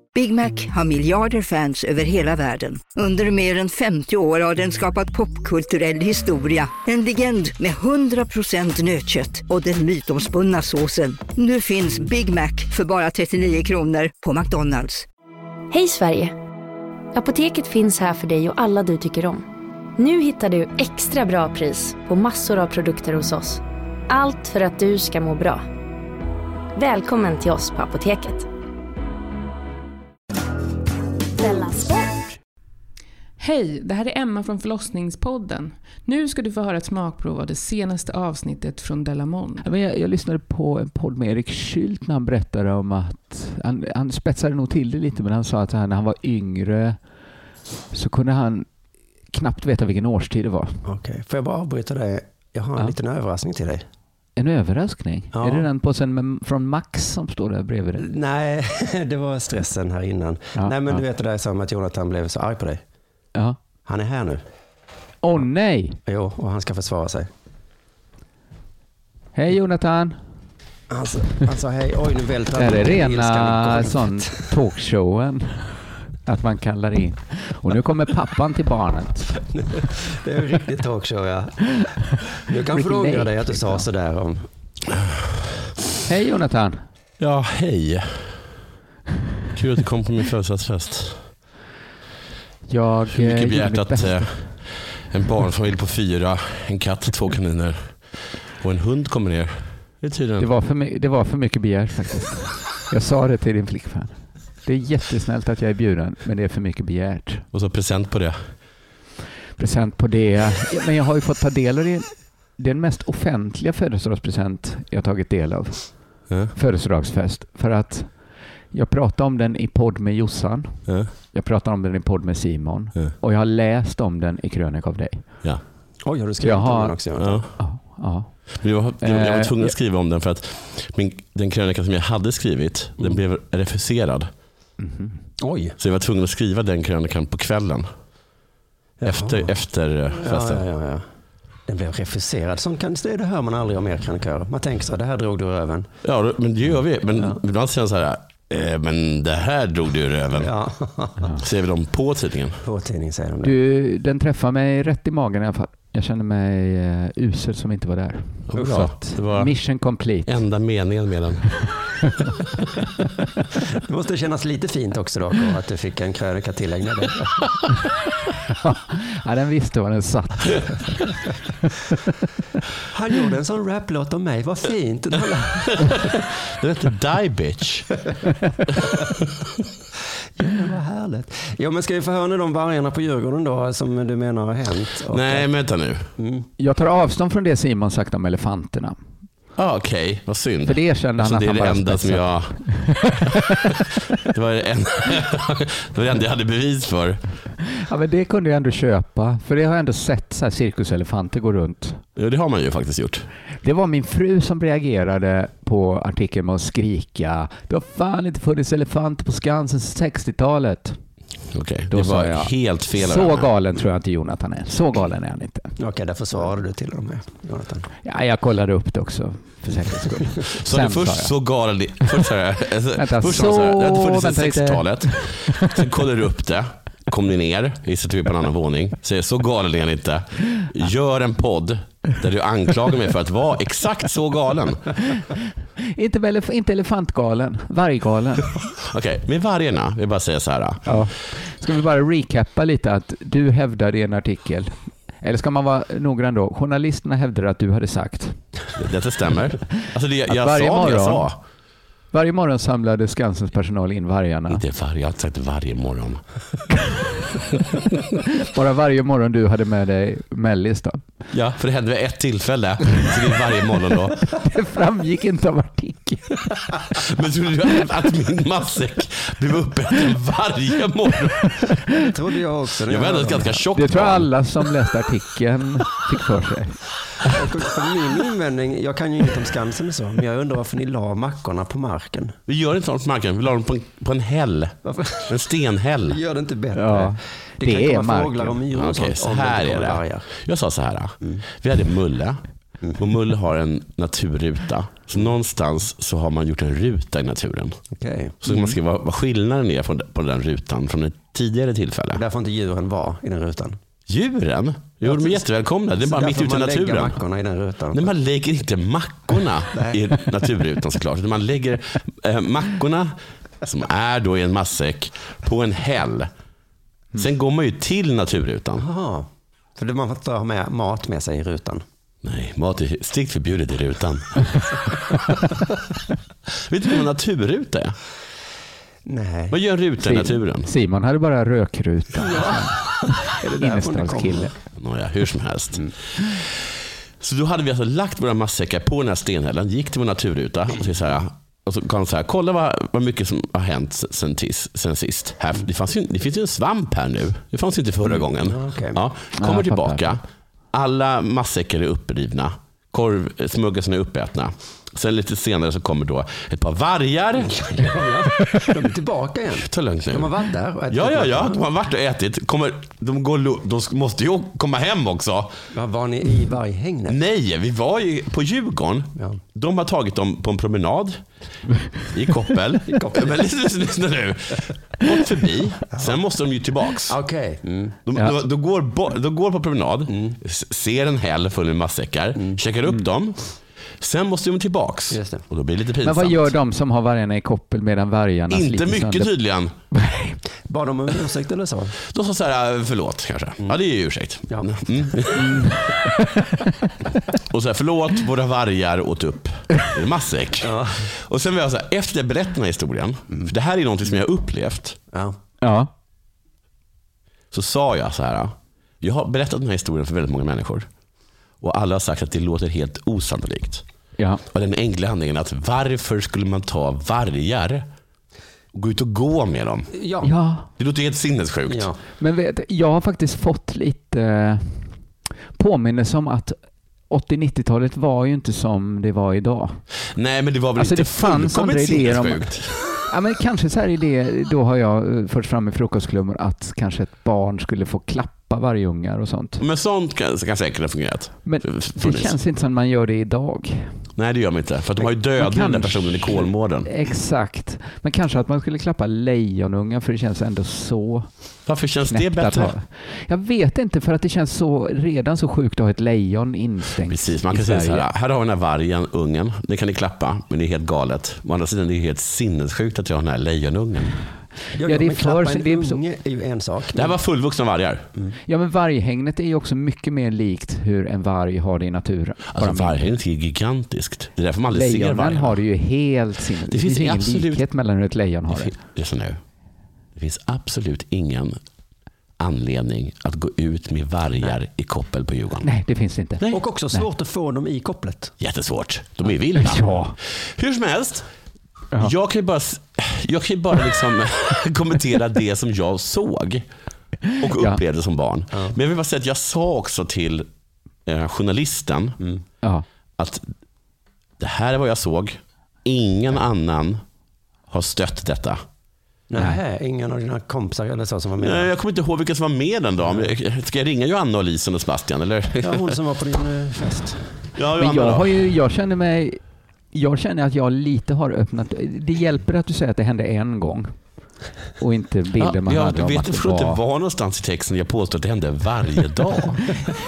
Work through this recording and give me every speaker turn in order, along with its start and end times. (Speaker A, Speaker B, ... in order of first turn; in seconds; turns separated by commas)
Speaker A: 0.1-15.1, Speaker B: 15.7-16.3, Speaker B: 17.1-19.5, Speaker B: 20.0-25.6, Speaker B: 26.8-28.5, Speaker C: 33.4-39.7, Speaker D: 39.6-47.0, Speaker D: 47.9-48.7, Speaker D: 49.3-50.8, Speaker E: 50.9-53.9, Speaker D: 54.4-58.1, Speaker E: 55.3-55.7, Speaker E: 58.0-62.8, Speaker D: 60.5-61.0, Speaker E: 63.9-64.4, Speaker D: 65.2-66.0, Speaker E: 66.1-67.3, Speaker D: 69.3-70.2, Speaker E: 70.9-74.5, Speaker D: 72.6-79.4, Speaker E: 79.5-81.8, Speaker E: 82.3-84.5, Speaker D: 82.7-83.8, Speaker D: 86.0-86.8, Speaker F: 87.2-88.4, Speaker F: 89.5-91.2, Speaker D: 92.7-94.4, Speaker F: 93.1-100.5, Speaker D: 100.4-107.5, Speaker F: 107.5-108.4, Speaker D: 109.6-116.0, Speaker D: 116.5-118.2, Speaker D: 118.7-125.3, Speaker E: 126.0-127.5, Speaker D: 126.4-129.7, Speaker F: 127.2-127.5, Speaker F: 128.6-134.3, Speaker D: 134.8-135.2, Speaker E: 135.4-135.8, Speaker F: 135.8-137.9, Speaker E: 139.0-139.5, Speaker F: 139.0-140.6, Speaker E: 140.2-141.1, Speaker E: 141.7-145.9, Speaker F: 146.0-150.5, Speaker E: 150.4-151.3, Speaker F: 151.4-152.6, Speaker E: 152.6-153.5, Speaker D: 153.4-160.4, Speaker F: 158.5-159.6, Speaker F: 160.3-161.8, Speaker E: 163.9-167.6, Speaker D: 168.5-171.1, Speaker E: 172.9-176.2, Speaker F: 175.7-177.9, Speaker E: 180.4-185.5, Speaker F: 185.1-186.1, Speaker E: 186.2-186.5, Speaker D: 186.6-189.0, Speaker F: 189.6-193.1, Speaker D: 190.7-193.7, Speaker F: 194.2-197.2, Speaker D: 197.7-202.0, Speaker F: 202.2-203.3, Speaker D: 203.6-211.0, Speaker F: 211.5-213.5, Speaker D: 211.9-215.8, Speaker E: 215.8-217.9, Speaker D: 218.0-221.4, Speaker F: 220.5-234.9, Speaker D: 222.9-225.8, Speaker D: 235.8-238.5, Speaker F: 238.8-240.8, Speaker D: 240.9-248.4, Speaker F: 248.8-251.4, Speaker D: 249.8-251.3, Speaker D: 252.1-254.6, Speaker F: 254.5-256.2, Speaker D: 258.4-261.0, Speaker F: 261.3-264.3, Speaker D: 264.4-266.4, Speaker F: 266.9-271.8, Speaker E: 272.0-273.6, Speaker F: 272.9-274.3, Speaker D: 273.8-277.3, Speaker E: 277.2-282.4, Speaker F: 282.5-286.2, Speaker E: 284.9-285.3, Speaker E: 286.1-290.3, Speaker D: 286.8-288.6, Speaker F: 288.7-292.4, Speaker F: 293.0-297.8, Speaker E: 297.9-298.7, Speaker F: 298.4-302.2, Speaker E: 302.1-303.8, Speaker F: 304.1-307.2, Speaker E: 305.1-305.4, Speaker E: 306.0-308.1, Speaker F: 307.9-316.3, Speaker E: 309.7-310.0, Speaker F: 317.1-318.9, Speaker E: 318.8-321.8, Speaker F: 322.2-324.7, Speaker F: 326.6-328.0, Speaker E: 329.1-329.6, Speaker F: 329.5-330.7, Speaker D: 330.0-334.5, Speaker E: 332.2-334.5, Speaker F: 334.8-357.9, Speaker E: 348.2-349.0, Speaker D: 349.4-350.2, Speaker E: 357.4-361.6, Speaker F: 359.6-360.3, Speaker F: 360.9-365.6, Speaker E: 365.7-367.2, Speaker F: 367.1-371.2, Speaker F: 372.0-377.2, Speaker E: 372.9-373.4, Speaker E: 375.9-376.2, Speaker E: 377.1-378.0, Speaker F: 378.1-383.5, Speaker E: 380.1-380.4, Speaker F: 384.0-386.5, Speaker E: 385.1-385.4, Speaker D: 386.0-389.3, Speaker F: 388.5-389.7, Speaker D: 389.9-390.4, Speaker E: 390.7-392.0, Speaker F: 392.1-395.7, Speaker D: 395.4-396.6, Speaker F: 397.5-405.0, Speaker E: 400.6-401.1, Speaker D: 405.6-405.9, Speaker F: 407.5-410.9, Speaker F: 411.6-413.8, Speaker D: 414.2-414.4, Speaker F: 414.5-417.9, Speaker F: 418.7-419.9, Speaker E: 419.9-420.3, Speaker D: 420.2-420.7, Speaker F: 420.8-421.9, Speaker E: 421.7-422.0, Speaker D: 422.2-425.0, Speaker D: 425.6-426.6, Speaker D: 427.1-429.8, Speaker F: 430.1-432.8, Speaker D: 430.8-439.6, Speaker F: 439.6-442.4, Speaker D: 441.4-444.0, Speaker F: 444.2-446.9, Speaker D: 445.4-451.3, Speaker F: 451.7-452.7, Speaker D: 452.1-458.1, Speaker F: 457.1-464.2, Speaker E: 464.7-467.2, Speaker D: 464.9-466.0, Speaker F: 466.9-468.0, Speaker D: 468.5-473.1, Speaker F: 472.5-475.6, Speaker D: 474.7-478.7, Speaker F: 476.7-477.6, Speaker F: 478.5-479.4, Speaker F: 480.2-481.6, Speaker F: 482.4-485.7, Speaker D: 485.6-487.1, Speaker E: 486.5-488.3, Speaker F: 488.4-491.3, Speaker D: 489.6-490.2, Speaker F: 492.0-496.7, Speaker D: 497.3-497.8, Speaker F: 497.4-500.5, Speaker F: 501.1-502.2, Speaker F: 503.2-503.5, Speaker F: 504.4-507.0, Speaker F: 507.7-508.6, Speaker E: 509.3-511.7, Speaker F: 511.4-516.0, Speaker E: 513.0-513.3, Speaker E: 515.6-517.3, Speaker F: 517.6-518.3, Speaker D: 517.8-519.4, Speaker D: 519.9-524.0, Speaker D: 524.8-526.8, Speaker F: 525.4-529.7